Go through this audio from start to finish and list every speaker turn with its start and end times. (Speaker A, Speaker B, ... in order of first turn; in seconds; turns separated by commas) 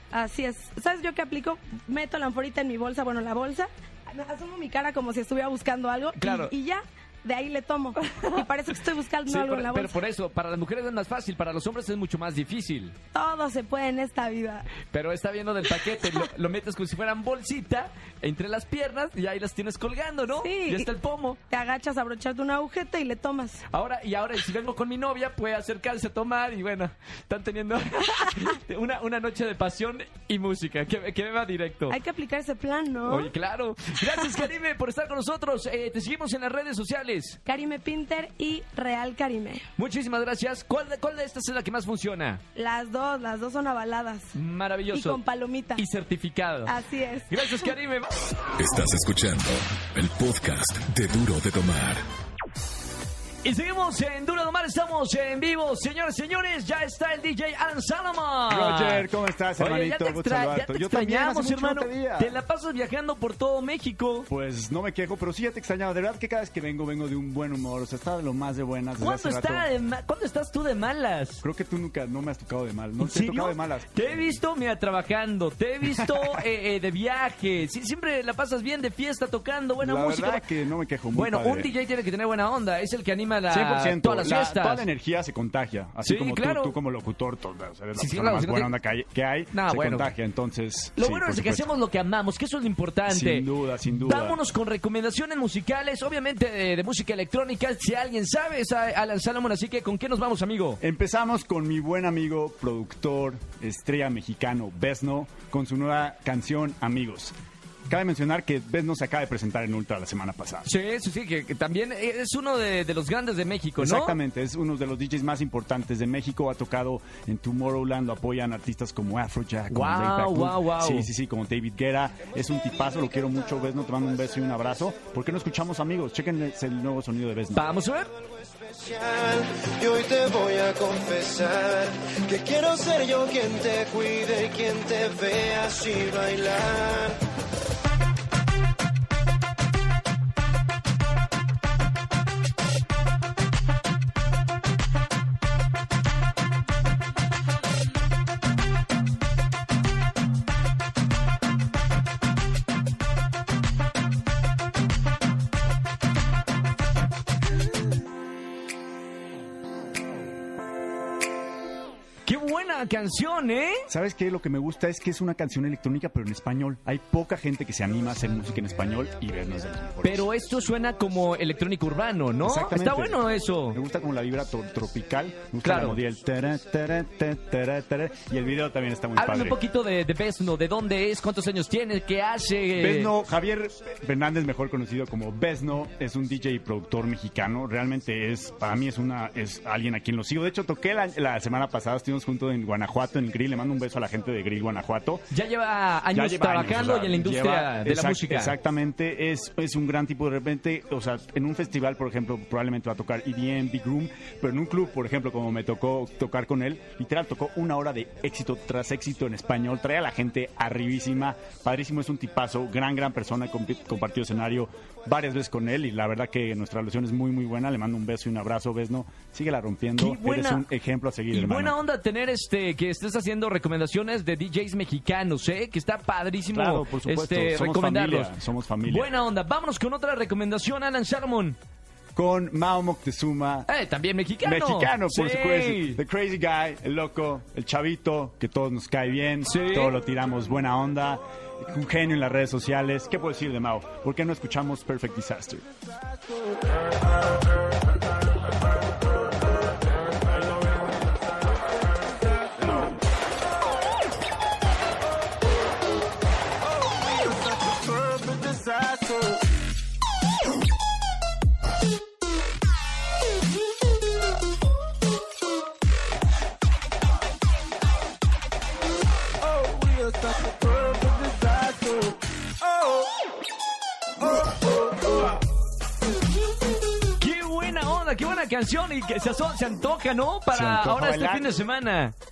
Speaker A: 0.1-10.0, Speaker B: 6.2-6.5, Speaker B: 8.1-8.4, Speaker B: 9.3-13.0, Speaker A: 13.1-14.7, Speaker B: 14.9-21.4, Speaker A: 20.4-20.9, Speaker A: 21.5-23.6, Speaker B: 23.7-32.0, Speaker A: 31.9-33.3, Speaker B: 33.1-37.4, Speaker A: 37.5-39.7, Speaker B: 39.8-42.4, Speaker A: 42.5-44.4, Speaker B: 44.4-45.2, Speaker A: 44.9-45.8, Speaker B: 45.8-46.7, Speaker A: 46.7-47.7, Speaker B: 47.3-48.3, Speaker C: 48.6-52.1, Speaker B: 53.4-64.3, Speaker D: 58.5-62.4, Speaker D: 64.3-69.7, Speaker B: 69.0-71.4, Speaker D: 71.4-74.4, Speaker B: 73.0-80.5, Speaker D: 75.8-76.4, Speaker D: 79.8-81.7, Speaker B: 81.1-84.9, Speaker D: 83.5-91.7, Speaker B: 86.0-86.8, Speaker B: 88.0-88.7, Speaker B: 89.5-90.1, Speaker B: 91.0-93.5, Speaker D: 93.1-94.4, Speaker B: 94.0-100.8, Speaker D: 100.8-107.3, Speaker D: 107.9-110.7, Speaker B: 110.7-114.2, Speaker D: 113.8-127.7, Speaker B: 119.7-121.1, Speaker B: 127.5-128.1, Speaker E: 128.2-137.2, Speaker B: 162.3-163.8, Speaker D: 163.9-170.3, Speaker B: 170.0-173.8, Speaker D: 172.4-179.6, Speaker B: 175.6-176.0, Speaker B: 179.2-183.1, Speaker D: 182.8-195.3, Speaker B: 195.3-198.6, Speaker D: 196.1-221.8, Speaker B: 220.0-220.7, Speaker B: 221.3-228.3, Speaker D: 226.5-229.1, Speaker B: 228.8-231.6, Speaker D: 232.2-233.7, Speaker B: 233.7-236.0, Speaker D: 234.4-245.7, Speaker B: 239.5-240.0, Speaker B: 277.2-282.1, Speaker D: 280.5-281.5